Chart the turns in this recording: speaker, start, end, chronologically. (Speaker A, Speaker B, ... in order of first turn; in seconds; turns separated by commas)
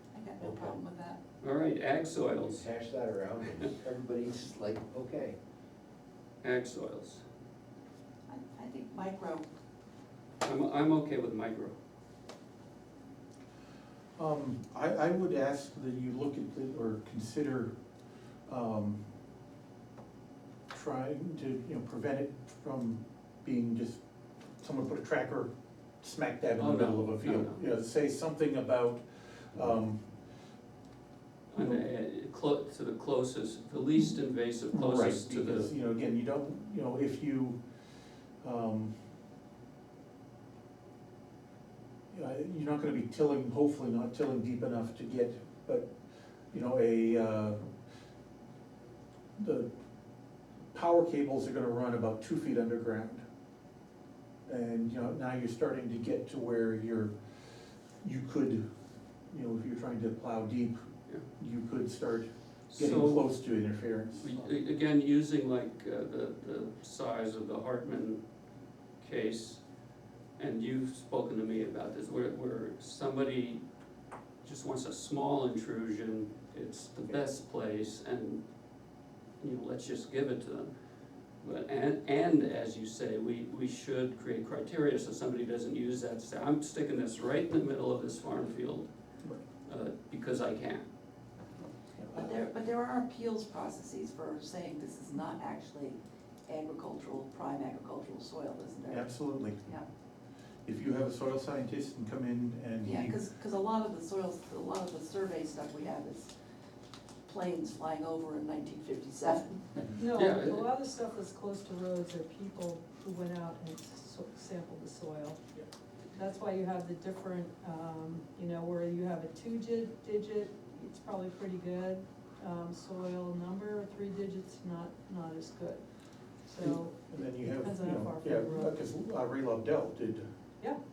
Speaker A: 0.1-1.2, Speaker B: 0.4-0.8, Speaker C: 1.4-2.7, Speaker B: 2.5-5.4, Speaker C: 6.4-7.2, Speaker A: 8.3-9.5, Speaker C: 10.4-11.8, Speaker D: 14.2-17.7, Speaker D: 18.5-19.0, Speaker D: 20.7-24.0, Speaker D: 24.6-30.0, Speaker C: 26.6-27.6, Speaker C: 31.5-35.7, Speaker D: 34.7-37.6, Speaker D: 38.4-38.9, Speaker D: 42.1-45.9, Speaker D: 46.5-47.7, Speaker D: 49.4-49.7, Speaker D: 50.7-53.2, Speaker D: 54.5-57.1, Speaker D: 58.0-58.6, Speaker D: 59.3-60.8, Speaker D: 61.4-64.3, Speaker C: 62.7-63.3, Speaker C: 64.2-68.2, Speaker C: 69.0-69.6, Speaker C: 70.4-73.6, Speaker C: 74.4-78.4, Speaker C: 79.4-80.7, Speaker C: 81.4-88.9, Speaker C: 89.6-90.8, Speaker D: 92.0-92.3, Speaker A: 92.1-99.9, Speaker D: 98.8-99.7, Speaker D: 100.6-103.2, Speaker A: 102.8-106.3, Speaker A: 107.2-109.9, Speaker E: 109.9-115.4, Speaker C: 110.1-110.7, Speaker E: 116.1-125.8, Speaker E: 126.4-128.7, Speaker D: 126.6-130.3